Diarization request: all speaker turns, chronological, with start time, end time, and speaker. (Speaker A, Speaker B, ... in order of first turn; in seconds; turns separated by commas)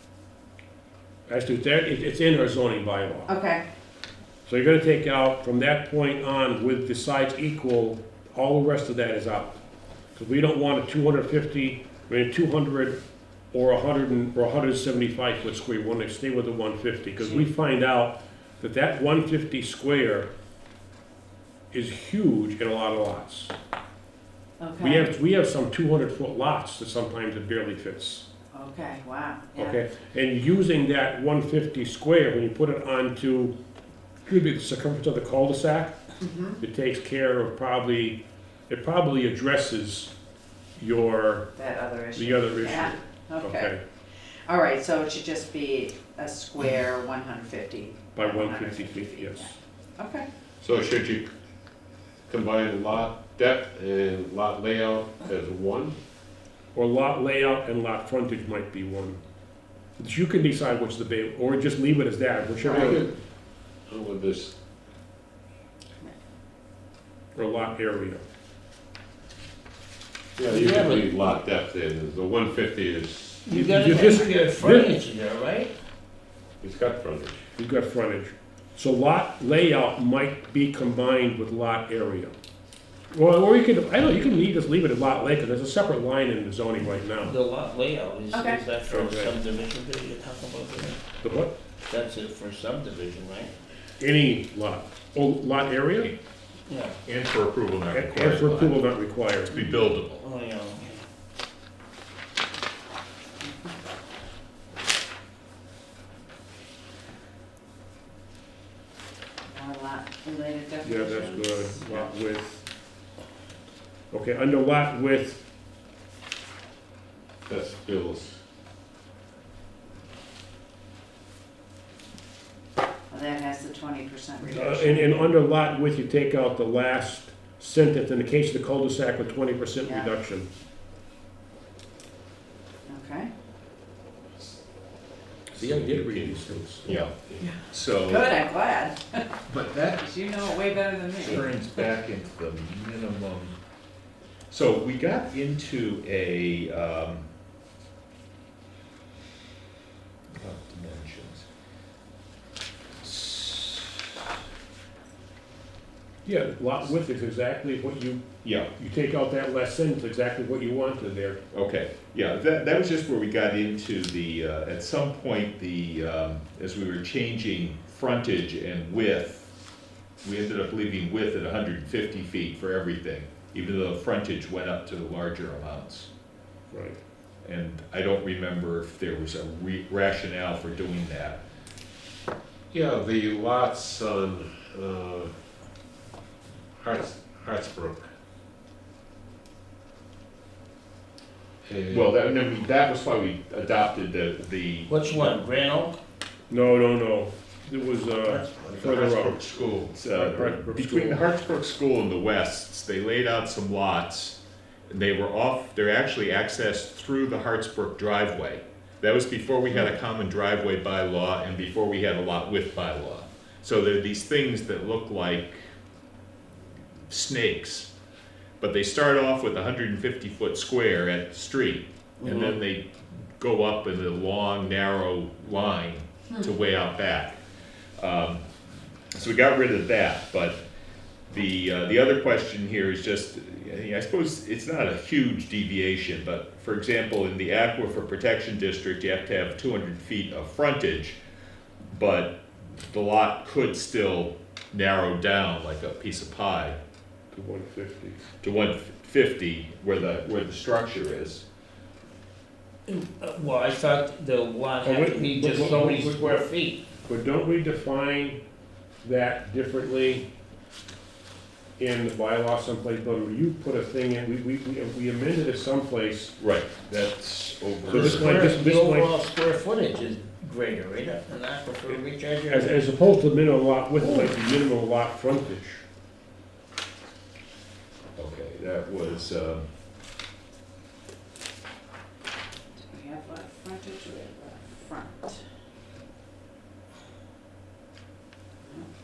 Speaker A: 1.3-3.3, Speaker B: 3.3-3.6, Speaker A: 4.5-9.6, Speaker A: 10.2-13.0, Speaker A: 13.5-20.3, Speaker B: 17.2-17.5, Speaker A: 21.7-23.5, Speaker B: 24.6-25.1, Speaker A: 24.8-28.2, Speaker B: 28.5-29.8, Speaker A: 29.6-33.5, Speaker A: 34.2-36.0, Speaker B: 36.2-36.6, Speaker A: 36.6-40.1, Speaker A: 40.8-41.5, Speaker B: 41.5-50.3, Speaker A: 42.1-43.8, Speaker A: 48.1-49.5, Speaker C: 50.6-51.3, Speaker C: 52.3-56.0, Speaker A: 56.7-59.2, Speaker A: 60.0-63.1, Speaker B: 62.6-62.9, Speaker C: 62.7-63.1, Speaker C: 63.9-64.5, Speaker A: 67.3-68.2, Speaker C: 70.4-73.6, Speaker D: 70.5-71.1, Speaker D: 73.4-75.7, Speaker A: 73.5-74.9, Speaker C: 76.6-77.4, Speaker A: 77.5-82.3, Speaker A: 83.1-87.3, Speaker D: 87.2-91.0, Speaker B: 88.3-88.6, Speaker A: 88.9-89.3, Speaker A: 91.2-91.5, Speaker D: 91.9-93.5, Speaker A: 94.0-96.1, Speaker D: 96.7-97.0, Speaker E: 97.0-98.8, Speaker A: 97.9-99.5, Speaker E: 99.5-100.2, Speaker D: 99.6-101.0, Speaker B: 103.4-103.8, Speaker B: 109.5-112.1, Speaker A: 110.8-112.7, Speaker A: 114.1-115.4, Speaker C: 117.5-118.4, Speaker B: 123.1-125.3, Speaker A: 124.5-130.5, Speaker B: 129.8-130.1, Speaker B: 132.9-133.3, Speaker A: 135.5-137.0, Speaker C: 135.6-137.4, Speaker E: 136.8-138.4, Speaker B: 137.4-139.4, Speaker E: 139.5-140.0, Speaker B: 140.0-141.6, Speaker E: 141.2-143.5, Speaker E: 144.5-147.3, Speaker E: 150.4-151.4, Speaker E: 153.0-154.0, Speaker A: 156.2-161.4, Speaker E: 158.4-158.7, Speaker E: 161.5-169.5, Speaker E: 170.2-176.1, Speaker A: 176.7-177.0, Speaker E: 177.4-181.4, Speaker C: 182.7-185.3, Speaker C: 186.8-188.1, Speaker C: 191.6-192.1, Speaker E: 191.9-194.9, Speaker D: 194.9-196.0, Speaker A: 196.5-199.4, Speaker D: 198.2-198.6, Speaker C: 198.7-199.2, Speaker E: 198.7-204.4, Speaker A: 200.1-201.2, Speaker E: 204.9-215.7, Speaker E: 217.1-217.9, Speaker E: 218.6-222.9, Speaker D: 222.2-222.5, Speaker E: 223.4-227.4, Speaker E: 228.0-228.4, Speaker E: 229.1-230.6, Speaker E: 231.3-241.2, Speaker E: 241.9-246.8, Speaker A: 247.3-248.2, Speaker E: 248.4-251.4, Speaker D: 252.9-256.8, Speaker A: 254.8-256.4, Speaker A: 257.1-258.4, Speaker A: 259.0-260.3, Speaker A: 261.8-266.4, Speaker E: 266.4-268.5, Speaker A: 267.9-269.2, Speaker D: 267.9-272.8, Speaker A: 271.9-275.8, Speaker D: 274.0-274.3, Speaker E: 278.1-279.6, Speaker B: 282.8-285.4, Speaker B: 288.6-288.9